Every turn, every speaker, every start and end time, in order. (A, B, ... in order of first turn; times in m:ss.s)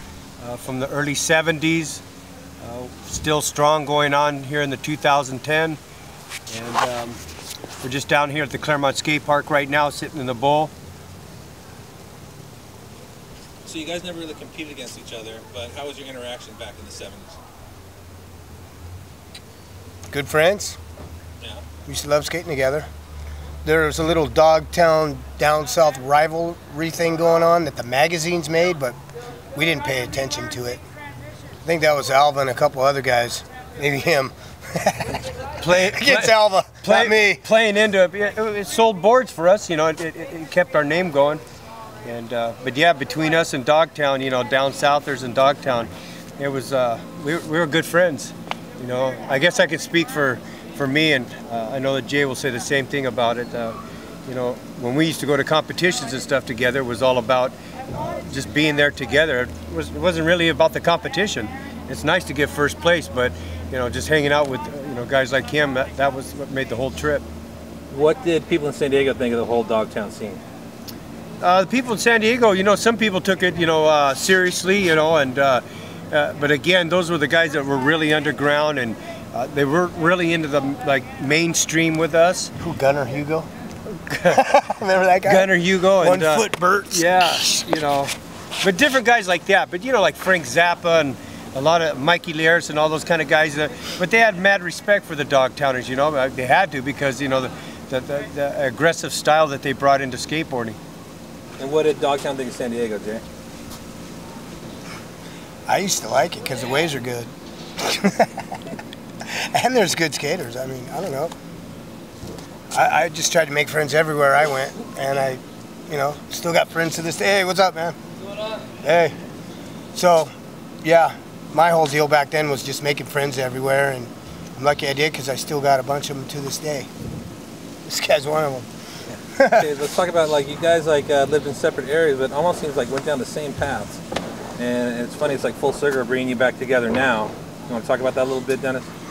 0:00.4-0:02.0 A
0:02.6-0:05.8 A
0:06.5-0:07.2 A
0:07.8-0:10.7 A
0:13.6-0:17.4 B
0:20.1-0:20.8 C
0:21.9-0:22.9 C
0:23.6-0:29.0 C
0:29.6-0:30.8 C
0:31.6-0:37.4 C
0:35.6-0:41.4 A
0:42.0-1:07.2 A
1:07.9-1:10.4 B
1:11.4-1:22.5 A
1:22.6-1:23.5 C
1:23.9-1:24.4 A
1:24.3-1:27.6 C
1:25.2-1:40.8 A
1:41.6-1:43.2 B
1:45.7-1:48.6 C
1:49.2-1:51.3 C
1:52.7-1:58.0 C
1:58.8-1:59.2 C
2:00.0-2:06.9 C
2:07.8-2:08.7 C
2:09.4-2:09.7 C
2:09.4-2:14.0 B
2:14.6-2:18.9 B